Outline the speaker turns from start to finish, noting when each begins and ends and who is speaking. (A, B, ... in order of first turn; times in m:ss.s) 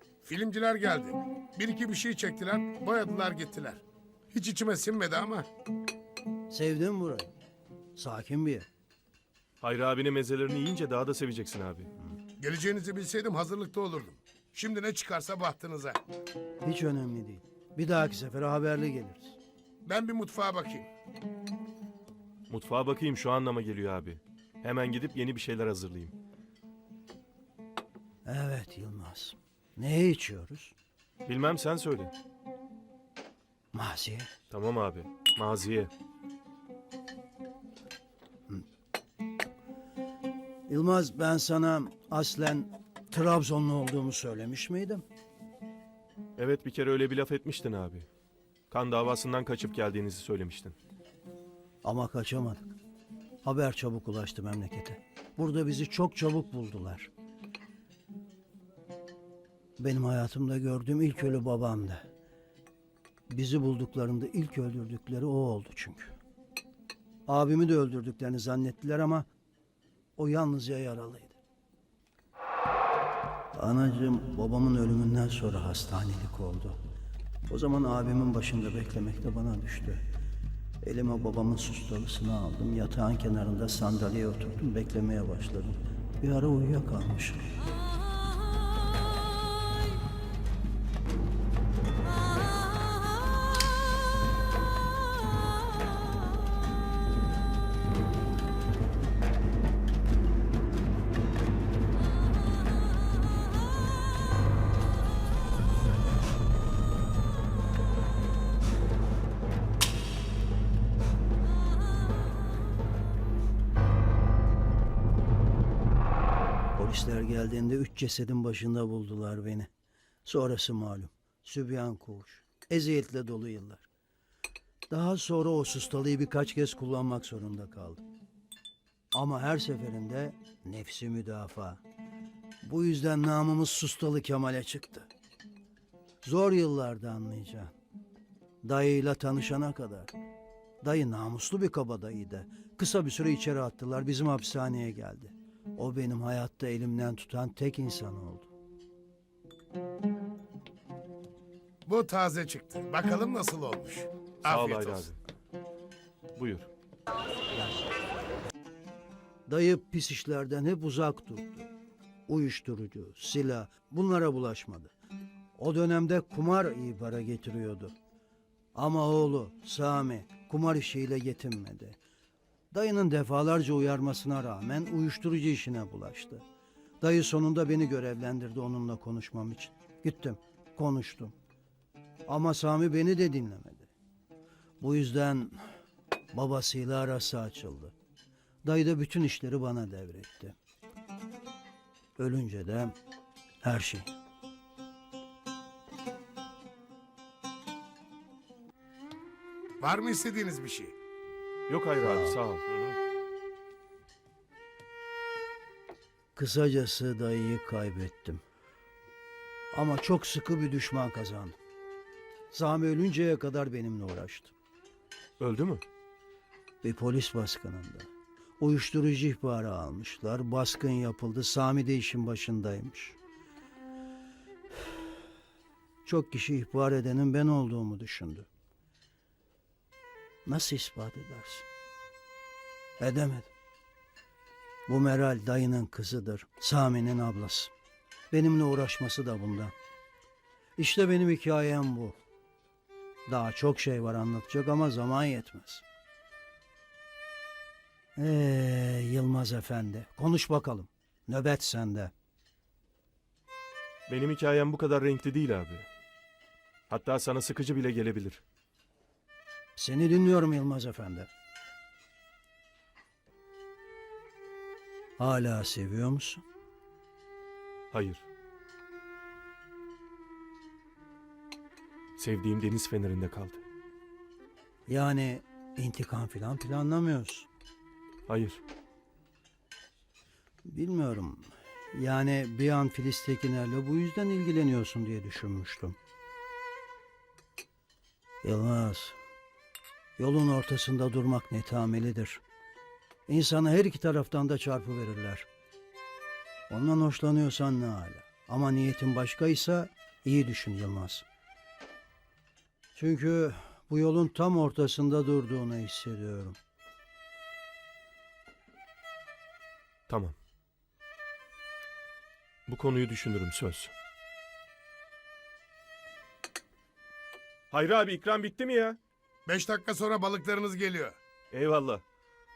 0:00.2-0:05.5 A
0:06.5-0:07.3 B
0:08.0-0:08.7 B
0:09.6-0:11.9 C
0:12.4-0:16.0 A
0:16.6-0:19.4 B
0:19.8-0:20.9 A
0:22.5-0:26.1 C
0:28.3-0:30.7 B
0:31.2-0:32.1 C
0:33.7-0:34.3 B
0:34.5-0:35.9 C
0:40.7-0:45.0 B
0:46.4-0:48.1 C
0:48.7-0:50.8 C
0:51.8-0:52.7 B
0:53.4-0:57.1 B
0:59.8-1:02.0 B
1:03.3-1:06.1 B
1:07.3-1:09.3 B
1:10.2-1:11.4 B
1:13.6-1:16.8 B
1:17.5-1:20.0 B
1:20.8-1:27.6 B
1:56.8-1:59.7 B
2:00.2-2:03.9 B
2:04.9-2:08.0 B
2:09.1-2:11.8 B
2:12.6-2:15.1 B
2:16.2-2:17.7 B
2:18.6-2:20.1 B
2:20.8-2:28.5 B
2:31.9-2:35.1 A
2:34.5-2:35.2 C
2:36.4-2:36.7 C
2:37.6-2:37.9 B
2:39.5-2:41.7 B
2:42.3-2:44.9 B
2:45.6-2:48.0 B
2:48.8-2:52.0 B
2:52.7-2:56.4 B
2:57.0-3:01.3 B
3:02.3-3:03.9 B
3:04.8-3:05.7 B
3:06.3-3:07.9 B
3:08.6-3:10.6 B
3:12.2-3:12.9 B
3:13.6-3:14.1 B
3:19.8-3:20.9 A
3:21.7-3:22.6 C
3:22.0-3:22.4 B
3:22.7-3:23.0 A
3:26.4-3:28.4 B
3:29.7-3:31.6 B
3:32.5-3:34.5 B
3:35.4-3:35.8 C
3:36.8-3:43.2 B
3:46.0-3:48.5 B
3:50.5-3:51.6 B
3:53.0-3:53.5 B
3:54.9-3:57.7 B
3:58.3-3:59.7 B
4:00.8-4:02.2 B
4:03.3-4:05.8 B
4:08.2-4:12.1 B
4:14.1-4:15.9 C
4:16.9-4:18.4 C
4:19.8-4:21.3 B
4:25.2-4:26.4 B
4:27.9-4:28.2 C
4:32.2-4:33.6 C
4:34.9-4:37.5 B
4:38.3-4:38.6 C
4:40.7-4:46.0 B
4:48.4-4:49.2 B
4:50.2-4:52.4 B
4:53.3-4:55.5 B
4:56.7-5:01.2 B
5:02.9-5:06.6 B
5:10.1-5:10.4 C
5:12.7-5:13.9 C
5:17.7-5:19.0 C
5:19.5-5:21.2 A
5:21.5-5:22.0 C